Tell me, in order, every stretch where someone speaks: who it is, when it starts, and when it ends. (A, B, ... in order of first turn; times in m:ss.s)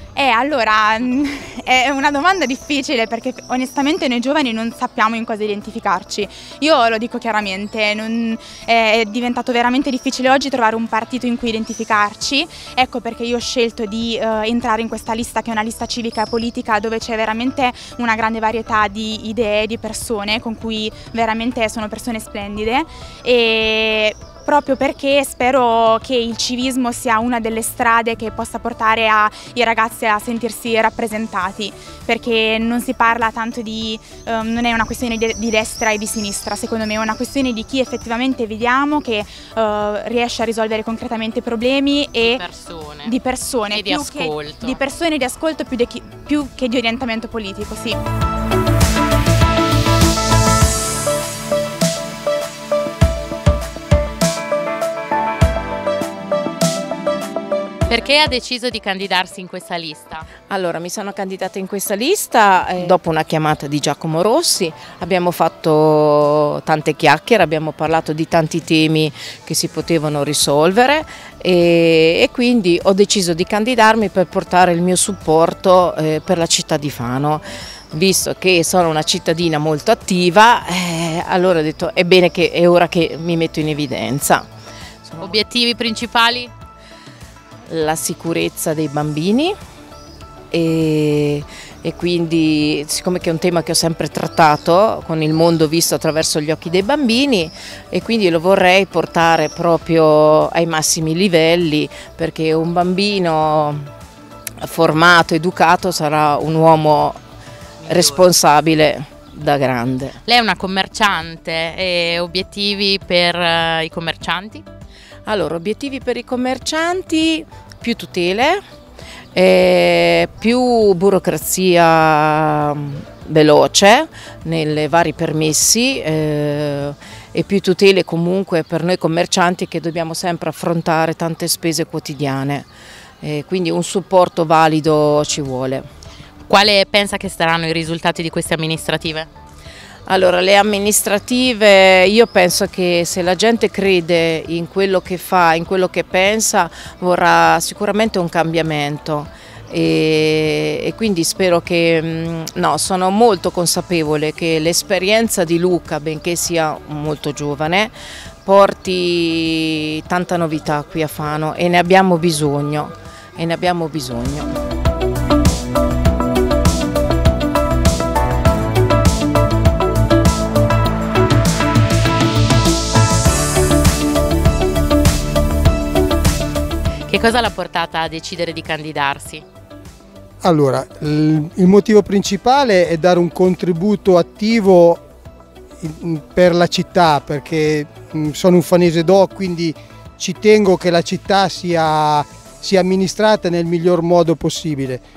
0:00.2-0:42.4 A
0:42.2-0:43.1 B
0:42.9-0:48.0 A
0:43.7-0:44.8 B
0:57.9-1:00.2 B
1:00.5-1:24.5 C
1:25.2-1:26.5 B
1:27.7-1:29.6 C
1:30.5-1:43.9 C
1:44.6-1:47.2 C
1:47.8-1:48.2 B
1:47.9-1:50.2 C
1:50.2-1:54.6 B
1:55.3-1:58.6 C
1:59.4-2:12.7 C
2:13.2-2:15.9 C
2:16.5-2:19.3 B
2:20.1-2:37.9 C
2:38.4-2:44.5 C
2:57.1-2:59.4 B
3:00.4-3:05.0 D
3:05.8-3:15.0 D